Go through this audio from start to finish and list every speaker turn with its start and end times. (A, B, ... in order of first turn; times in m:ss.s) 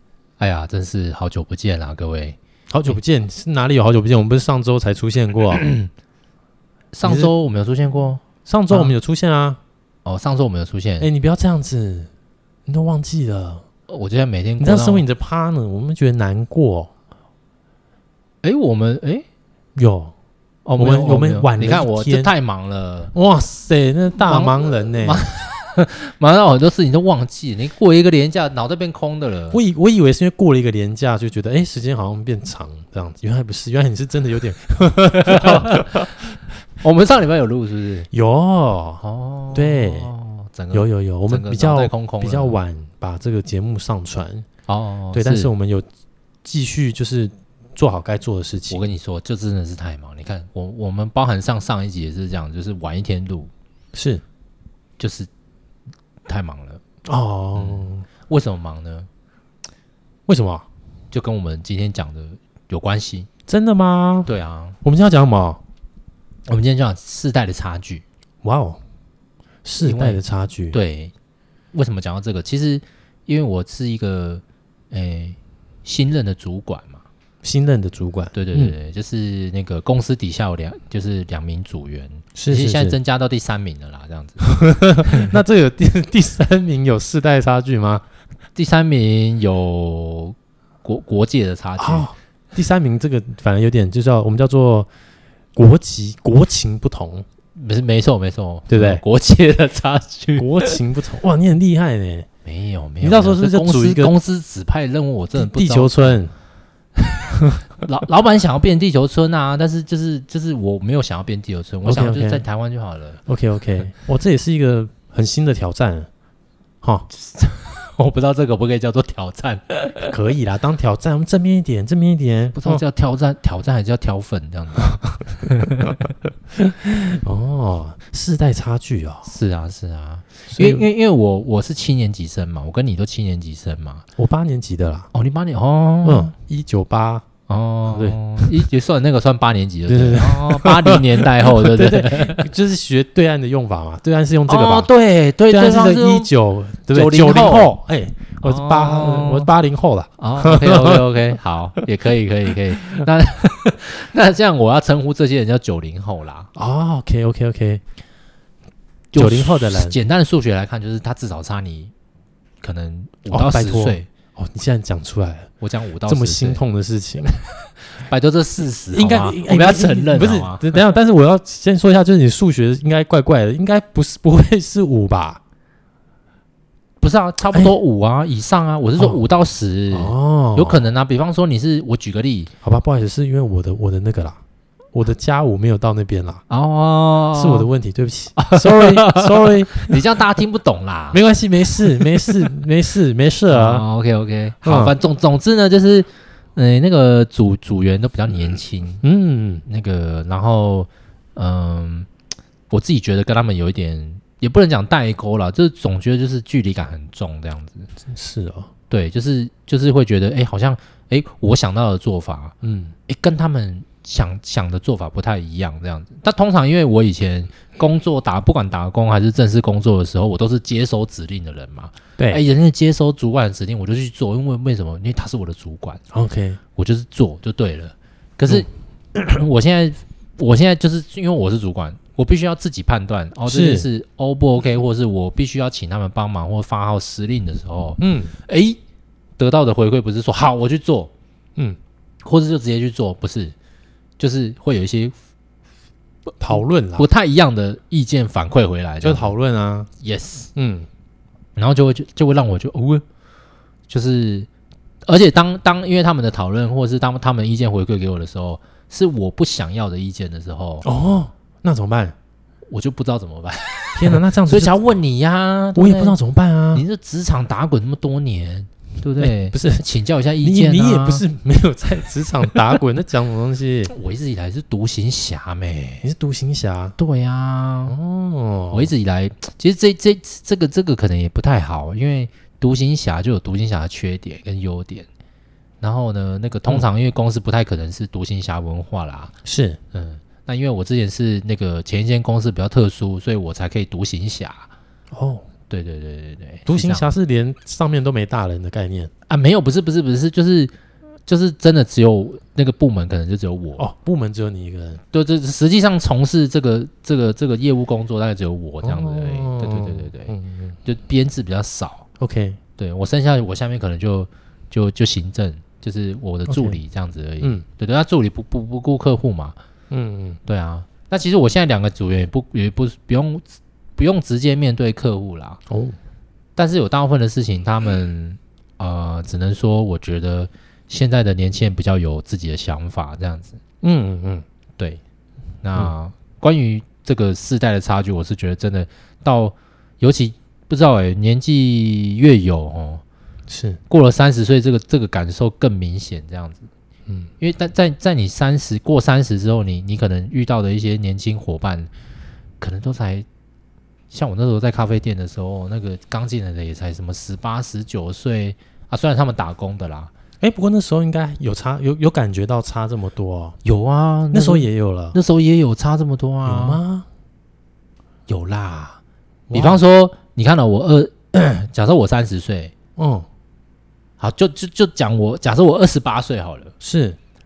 0:00.4-0:03.0 A
0:02.7-0:05.6 B
0:05.5-0:05.9 A
0:06.9-0:08.9 A
0:07.0-0:07.3 B
0:08.4-0:09.6 B
0:10.0-0:11.1 A
0:11.0-0:12.1 B
0:12.7-0:13.6 B
0:13.9-0:15.0 A
0:14.6-0:16.9 B
0:18.4-0:19.2 A
0:19.8-0:20.1 B
0:20.6-0:23.1 A
0:20.8-0:22.3 B
0:23.1-0:25.2 B
0:24.2-0:29.6 A
0:29.5-0:36.1 B
0:35.2-0:35.9 A
0:36.8-0:38.1 A
0:38.1-0:40.1 B
0:39.0-0:42.6 A
0:40.7-0:44.5 B
0:44.7-0:45.5 A
0:45.1-0:45.9 B
0:46.4-0:48.8 B
0:48.7-0:53.5 A
0:53.9-0:54.2 B
0:55.0-0:55.3 A
0:56.2-0:56.8 A
0:57.0-0:58.0 B
0:57.6-0:59.1 A
1:00.3-1:00.7 B
1:01.1-1:03.3 A
1:03.5-1:04.3 B
1:04.2-1:04.8 A
1:04.8-1:05.6 B
1:06.5-1:08.0 A
1:08.4-1:08.8 B
1:09.6-1:10.8 B
1:09.8-1:10.2 A
1:10.7-1:11.1 A
1:11.7-1:17.0 A
1:17.4-1:18.7 B
1:18.3-1:24.5 A
1:22.3-1:23.0 B
1:24.4-1:28.0 B
1:25.0-1:25.3 A
1:28.5-1:32.1 A
1:31.8-1:34.9 B
1:35.6-1:37.2 B
1:37.5-1:40.8 A
1:38.7-1:39.0 B
1:40.4-1:42.3 B
1:42.4-1:46.2 A
1:43.0-1:44.1 B
1:45.3-1:46.3 B
1:47.8-1:53.2 A
1:51.8-1:52.4 B
1:53.2-1:56.1 B
1:56.8-1:57.1 B
1:57.1-2:00.1 A
2:00.1-2:02.8 B
2:02.5-2:06.0 A
2:04.8-2:05.1 B
2:06.5-2:09.3 B
2:09.2-2:14.0 A
2:10.5-2:10.8 B
2:14.2-2:15.1 B
2:15.1-2:16.3 A
2:16.0-2:17.2 B
2:17.5-2:22.5 A
2:17.9-2:18.6 B
2:19.9-2:24.9 B
2:24.5-2:26.3 A
2:25.5-2:31.4 B
2:26.9-2:27.7 A
2:28.4-2:29.5 A
2:30.2-2:36.5 A
2:36.5-2:37.8 B
2:39.1-2:41.9 A
2:39.1-2:40.0 B
2:42.6-2:44.1 A
2:43.3-2:45.5 B
2:45.6-2:46.6 A
2:46.0-2:47.3 B
2:48.0-2:50.6 A
2:48.9-2:55.4 B
2:57.0-3:02.5 A
2:59.9-3:00.8 B
3:02.6-3:04.4 B
3:04.9-3:06.4 B
3:06.5-3:07.7 A
3:07.3-3:10.0 B
3:08.4-3:11.2 A
3:11.1-3:13.8 B
3:11.9-3:12.3 A
3:13.5-3:19.0 A
3:14.6-3:14.9 B
3:19.0-3:19.6 B
3:19.6-3:22.1 A
3:22.7-3:27.9 A
3:28.0-3:28.7 B
3:28.9-3:32.5 A
3:32.6-3:32.9 B
3:33.1-3:46.0 A
3:46.1-3:46.6 B
3:46.8-3:58.8 A
3:53.5-3:53.9 B
3:58.0-3:58.3 B
3:59.4-4:01.1 A
4:02.2-4:03.5 A
4:04.2-4:05.1 A
4:06.4-4:07.1 B
4:06.5-4:09.3 A
4:09.0-4:09.9 B
4:10.0-4:10.5 A
4:10.5-4:10.9 B
4:11.6-4:13.0 A
4:13.9-4:14.5 A
4:15.1-4:20.8 A
4:20.8-4:22.1 B
4:22.7-4:26.2 A
4:23.9-4:24.8 B
4:25.8-4:26.8 B
4:26.7-4:31.2 A
4:29.2-4:29.8 B
4:30.4-4:33.9 B
4:33.8-4:36.0 A
4:36.0-4:37.0 B
4:37.0-4:37.9 A
4:37.9-4:38.9 B
4:38.7-4:45.1 A
4:45.8-4:49.3 A
4:49.4-4:49.8 B
4:49.9-4:54.7 A
4:55.1-4:55.5 B
4:55.7-4:57.1 A
4:56.6-4:59.1 B
4:59.3-5:00.7 A
5:01.3-5:03.8 A
5:03.8-5:05.0 B
5:05.1-5:10.3 A
5:08.8-5:10.8 B
5:10.8-5:12.0 A
5:12.2-5:12.6 B
5:12.8-5:19.6 A
5:16.5-5:16.8 B
5:19.9-5:20.4 B
5:20.4-5:25.6 A
5:25.7-5:26.0 B
5:26.6-5:33.6 A
5:33.8-5:34.4 B
5:35.6-5:43.0 A
5:43.5-5:43.8 B
5:43.9-5:46.7 A
5:47.4-5:51.9 A
5:52.6-5:53.2 A
5:54.1-6:00.1 A
6:00.4-6:03.6 B
6:03.6-6:06.8 A
6:04.3-6:05.2 B
6:06.4-6:07.0 B
6:08.3-6:09.0 A
6:09.5-6:09.8 B
6:09.5-6:12.7 A
6:13.0-6:13.3 B
6:14.2-6:16.7 A
6:16.8-6:17.2 B